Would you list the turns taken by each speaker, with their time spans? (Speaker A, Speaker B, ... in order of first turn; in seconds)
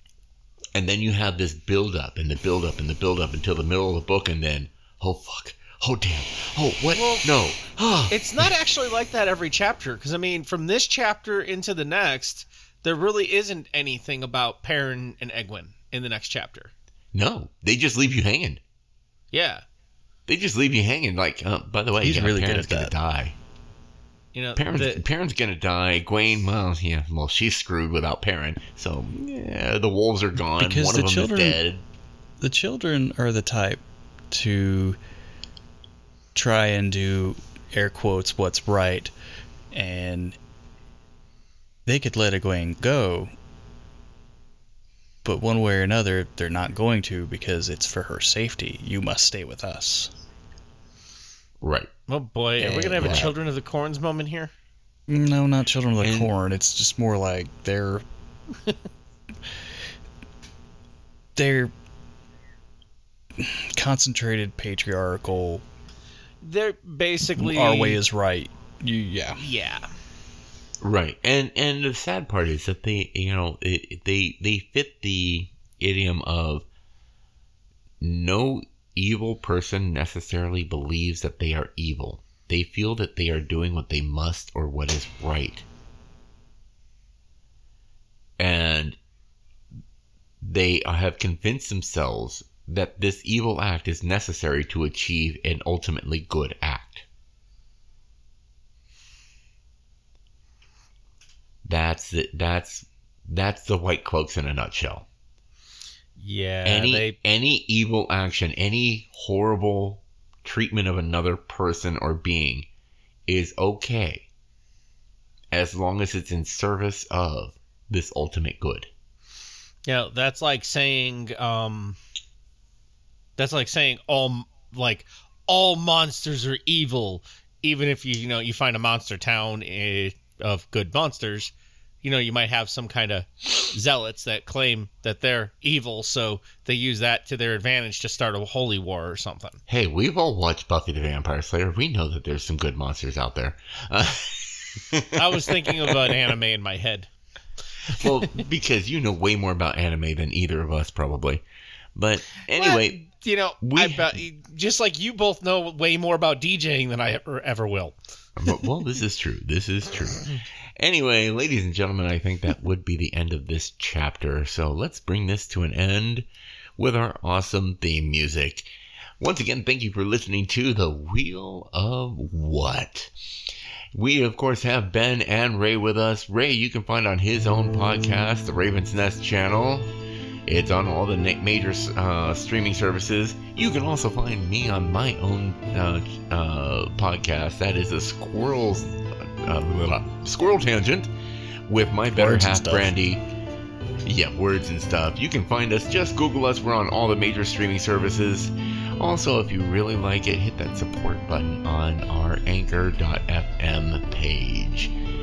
Speaker A: 0.8-8.5, 17.1-18.6, 20.3-23.4, 24.6-31.9, 51.6-51.9, 53.0-53.3, 56.0-56.3, 70.8-76.7, 78.0-85.7, 88.4-89.0, 90.4-97.1, 101.7-105.1, 106.7-112.7, 113.3-114.3, 115.5-118.9, 139.7-146.3, 147.9-151.4, 152.0-153.0, 153.6-154.2, 158.4-166.3, 166.8-173.1, 173.9-179.9, 180.5-191.1, 191.7-193.2, 194.1-204.9
Speaker B: 6.9-7.3, 8.1-16.7, 19.3-19.6, 24.3-25.1, 52.1-54.5, 66.4-68.0, 69.4-69.9, 106.2-107.2, 119.9-122.0, 123.4-139.6, 145.2-147.1, 148.0-148.3, 152.5-158.0
Speaker C: 22.0-22.9, 30.6-31.6, 32.4-35.0, 36.4-39.1, 39.7-40.4, 41.9-43.3, 45.2-50.1, 52.6-53.3, 55.1-58.0, 61.4-61.7, 63.4-65.6, 67.3-69.4, 192.1-192.9